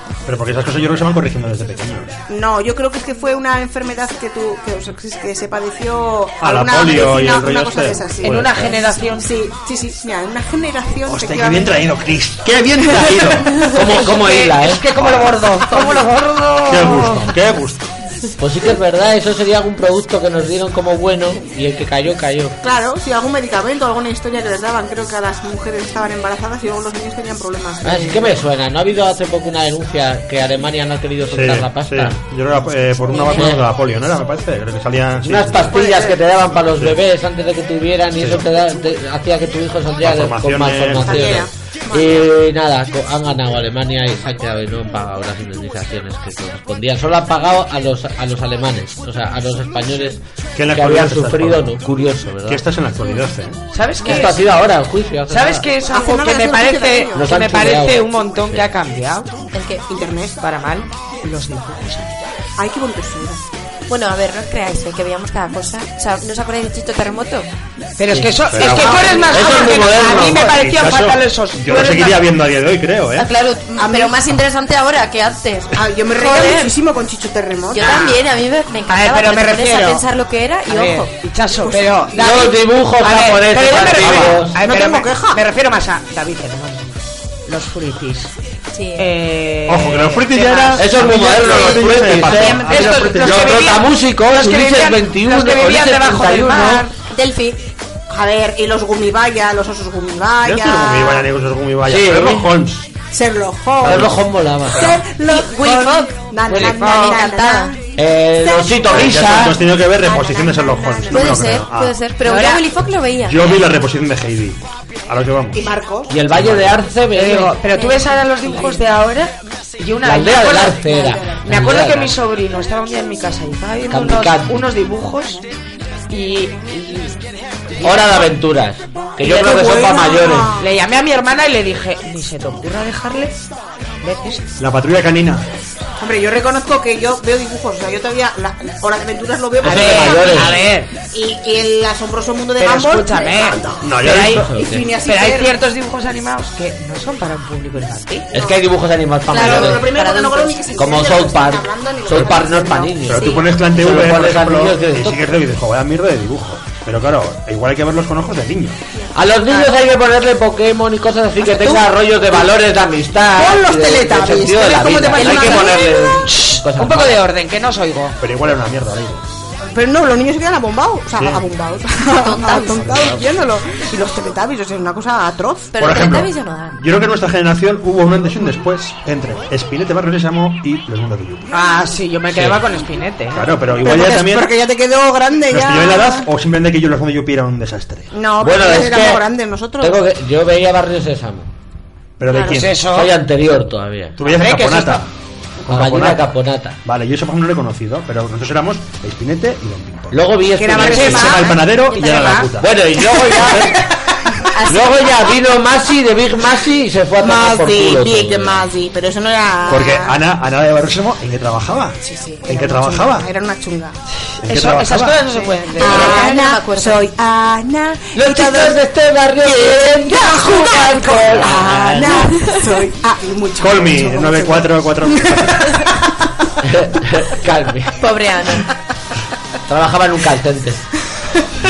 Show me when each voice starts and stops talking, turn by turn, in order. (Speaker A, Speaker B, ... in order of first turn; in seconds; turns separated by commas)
Speaker A: 0.3-2.2, Speaker B: 2.3-12.0, Speaker A: 6.4-8.8, Speaker C: 8.2-9.3, Speaker A: 11.1-13.6, Speaker C: 13.7-17.3, Speaker D: 13.7-14.9, Speaker A: 15.0-15.6, Speaker B: 15.8-16.0, Speaker A: 16.7-18.0, Speaker D: 18.4-22.6, Speaker B: 22.6-28.4, Speaker D: 27.8-32.2, Speaker A: 31.3-35.9, Speaker E: 33.1-33.5, Speaker D: 33.4-33.7, Speaker D: 35.2-50.2, Speaker B: 35.7-36.2, Speaker A: 38.2-38.5, Speaker A: 40.0-41.5, Speaker B: 41.0-42.3, Speaker A: 50.6-51.8, Speaker D: 50.7-52.6, Speaker A: 52.5-53.6, Speaker C: 53.7-54.4, Speaker D: 54.0-55.6, Speaker C: 55.3-59.3, Speaker B: 55.9-57.3, Speaker D: 57.2-58.6, Speaker E: 59.5-59.8, Speaker B: 59.9-60.4, Speaker C: 60.4-62.1, Speaker B: 62.6-63.5, Speaker E: 63.9-67.5, Speaker C: 68.0-72.3, Speaker D: 68.1-70.5, Speaker A: 68.5-69.3, Speaker B: 68.7-70.7, Speaker A: 70.5-73.3, Speaker E: 73.2-76.8, Speaker B: 73.8-74.2, Speaker B: 75.7-78.1, Speaker E: 77.7-81.1, Speaker C: 77.8-78.2, Speaker C: 78.9-80.0, Speaker C: 80.7-86.9, Speaker D: 82.1-84.6, Speaker B: 83.7-85.4, Speaker C: 87.5-88.3, Speaker E: 88.7-89.1, Speaker C: 89.0-90.8, Speaker A: 89.7-93.7, Speaker D: 90.8-96.9, Speaker B: 92.3-93.1, Speaker C: 92.5-96.9, Speaker E: 97.1-97.6, Speaker B: 98.1-101.3, Speaker A: 100.4-102.9, Speaker D: 101.9-102.5, Speaker B: 103.1-104.2, Speaker A: 103.8-104.2, Speaker D: 103.8-105.0, Speaker B: 104.7-107.8, Speaker E: 105.3-107.7, Speaker C: 106.5-107.1, Speaker D: 108.0-109.6, Speaker B: 108.4-111.5, Speaker A: 108.9-112.0, Speaker E: 111.1-113.5, Speaker C: 112.2-112.6, Speaker A: 113.2-115.7, Speaker B: 115.5-116.1, Speaker D: 116.1-117.6, Speaker A: 116.3-116.8, Speaker C: 117.1-125.4, Speaker E: 117.7-118.2, Speaker D: 120.0-122.2, Speaker D: 123.9-124.7, Speaker C: 126.1-128.3, Speaker D: 127.8-130.5, Speaker B: 129.2-130.7, Speaker C: 130.6-133.4, Speaker C: 134.0-134.4, Speaker A: 134.6-135.5, Speaker B: 136.0-145.6, Speaker D: 139.6-140.6, Speaker C: 139.7-140.9, Speaker C: 142.6-148.3, Speaker A: 143.8-144.5, Speaker D: 144.3-144.9, Speaker D: 148.3-149.9, Speaker B: 148.4-148.6, Speaker E: 149.3-150.8, Speaker B: 149.3-153.0, Speaker D: 150.8-155.4, Speaker A: 152.1-152.4, Speaker A: 153.0-158.8, Speaker E: 153.1-153.5, Speaker D: 159.1-167.2, Speaker B: 161.4-162.5, Speaker B: 163.3-165.9, Speaker E: 165.2-166.0, Speaker C: 165.2-168.2, Speaker A: 168.2-169.3, Speaker B: 169.7-175.8, Speaker A: 171.2-171.4, Speaker E: 172.3-172.7, Speaker A: 172.6-173.3, Speaker E: 175.8-176.8, Speaker A: 175.8-181.5, Speaker C: 181.5-183.5, Speaker A: 183.3-184.5, Speaker B: 183.8-186.3, Speaker A: 185.5-188.1, Speaker B: 188.1-190.0, Speaker D: 188.4-189.3, Speaker D: 189.8-191.5, Speaker A: 192.2-192.8, Speaker C: 192.4-193.1, Speaker D: 192.8-194.2, Speaker A: 194.2-195.1, Speaker C: 194.2-195.0, Speaker A: 195.7-196.3, Speaker D: 195.7-196.8, Speaker A: 196.8-200.2, Speaker D: 200.1-201.5, Speaker C: 200.6-202.4, Speaker A: 200.7-202.8, Speaker E: 201.7-202.5, Speaker D: 202.6-203.9, Speaker B: 203.3-203.7, Speaker E: 204.6-205.2, Speaker D: 204.7-208.7, Speaker B: 207.2-210.2, Speaker A: 209.7-213.3, Speaker B: 212.0-214.0, Speaker A: 214.4-215.2, Speaker C: 214.4-216.3, Speaker B: 215.3-218.8, Speaker E: 215.8-217.1, Speaker D: 218.1-222.4, Speaker B: 219.5-226.1, Speaker E: 222.3-222.7, Speaker A: 223.6-225.8, Speaker D: 226.6-228.0, Speaker E: 228.0-228.7, Speaker D: 229.7-230.8